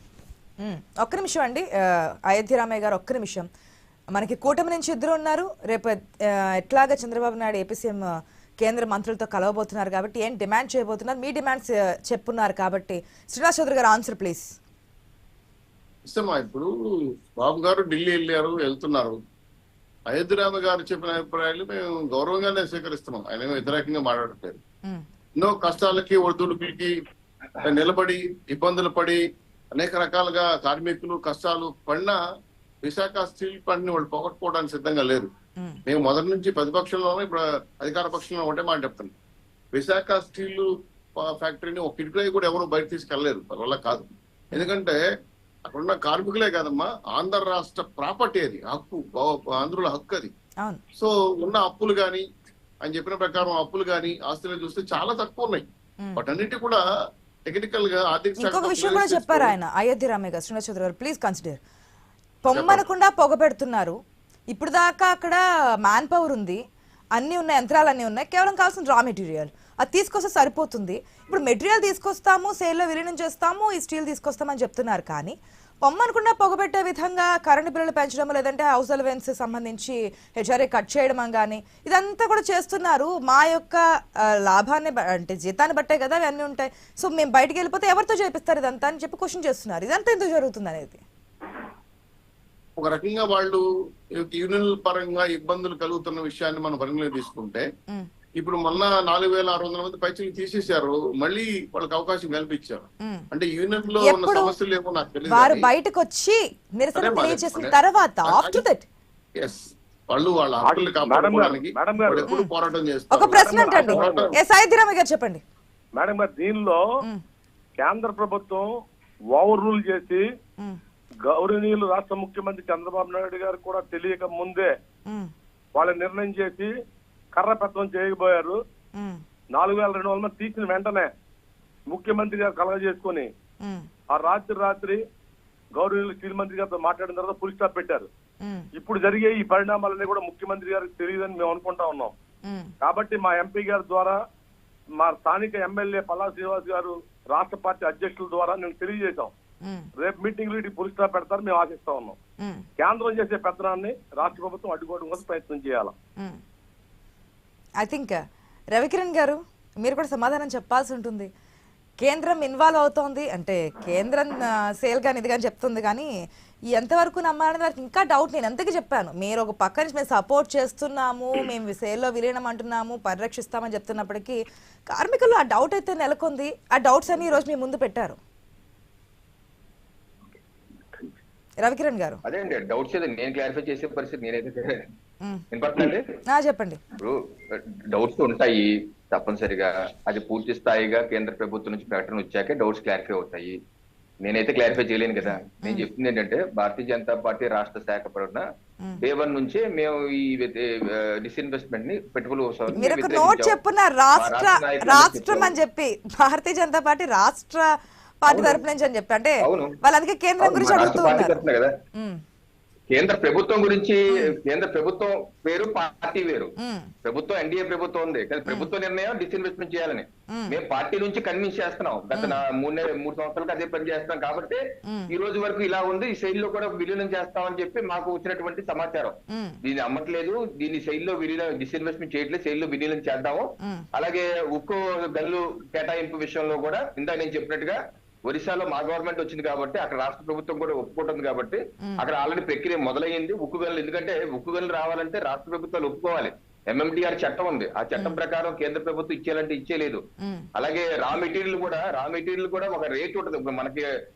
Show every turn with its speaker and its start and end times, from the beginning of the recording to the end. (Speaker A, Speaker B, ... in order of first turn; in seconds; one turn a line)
Speaker A: 0.6-3.5
Speaker A: 4.1-14.5
Speaker B: 16.1-16.7
Speaker B: 17.4-19.2
Speaker B: 20.1-24.6
Speaker B: 25.4-26.9
Speaker B: 27.6-29.2
Speaker B: 29.7-32.2
Speaker B: 32.8-35.3
Speaker B: 35.9-39.1
Speaker B: 39.7-45.0
Speaker B: 45.7-50.3
Speaker B: 51.0-52.2
Speaker B: 52.8-55.6
Speaker B: 56.2-56.8
Speaker B: 57.5-59.5
Speaker A: 58.4-61.6
Speaker A: 62.4-64.0
Speaker B: 62.5-62.8
Speaker A: 64.5-66.6
Speaker A: 67.2-91.0
Speaker B: 92.8-93.6
Speaker B: 94.2-97.7
Speaker B: 98.4-105.7
Speaker A: 103.0-103.3
Speaker A: 104.0-104.5
Speaker A: 105.3-108.9
Speaker B: 107.0-108.6
Speaker B: 109.4-114.4
Speaker C: 110.7-112.3
Speaker A: 113.1-115.4
Speaker C: 113.4-113.8
Speaker D: 113.9-114.3
Speaker C: 116.0-116.8
Speaker C: 117.8-118.7
Speaker C: 119.3-120.2
Speaker C: 121.3-124.7
Speaker C: 125.8-126.7
Speaker C: 127.3-128.6
Speaker C: 129.6-131.1
Speaker C: 131.9-133.3
Speaker A: 133.6-133.9
Speaker C: 134.1-135.0
Speaker C: 135.8-138.1
Speaker C: 138.8-142.1
Speaker A: 142.5-142.7
Speaker C: 142.8-144.2
Speaker C: 145.0-149.3
Speaker C: 150.0-152.2
Speaker C: 152.8-155.9
Speaker A: 157.8-158.2
Speaker A: 158.7-161.3
Speaker A: 162.0-166.1
Speaker A: 166.7-178.2
Speaker A: 181.6-182.2
Speaker D: 182.3-184.8
Speaker D: 185.5-186.1
Speaker A: 186.3-186.8
Speaker D: 187.0-193.6
Speaker D: 194.2-198.4
Speaker A: 195.3-195.9
Speaker D: 199.0-203.6
Speaker A: 202.7-207.7
Speaker D: 204.2-205.5
Speaker A: 208.2-211.4
Speaker D: 208.3-208.6
Speaker D: 209.4-209.8
Speaker D: 210.4-211.7
Speaker A: 212.0-212.2
Speaker D: 212.9-216.5
Speaker A: 216.6-216.9
Speaker D: 217.1-250.0
Speaker A: 218.5-218.7
Speaker A: 220.3-220.6
Speaker A: 224.9-225.1
Speaker A: 248.0-248.2
Speaker A: 250.2-250.5
Speaker D: 250.6-253.8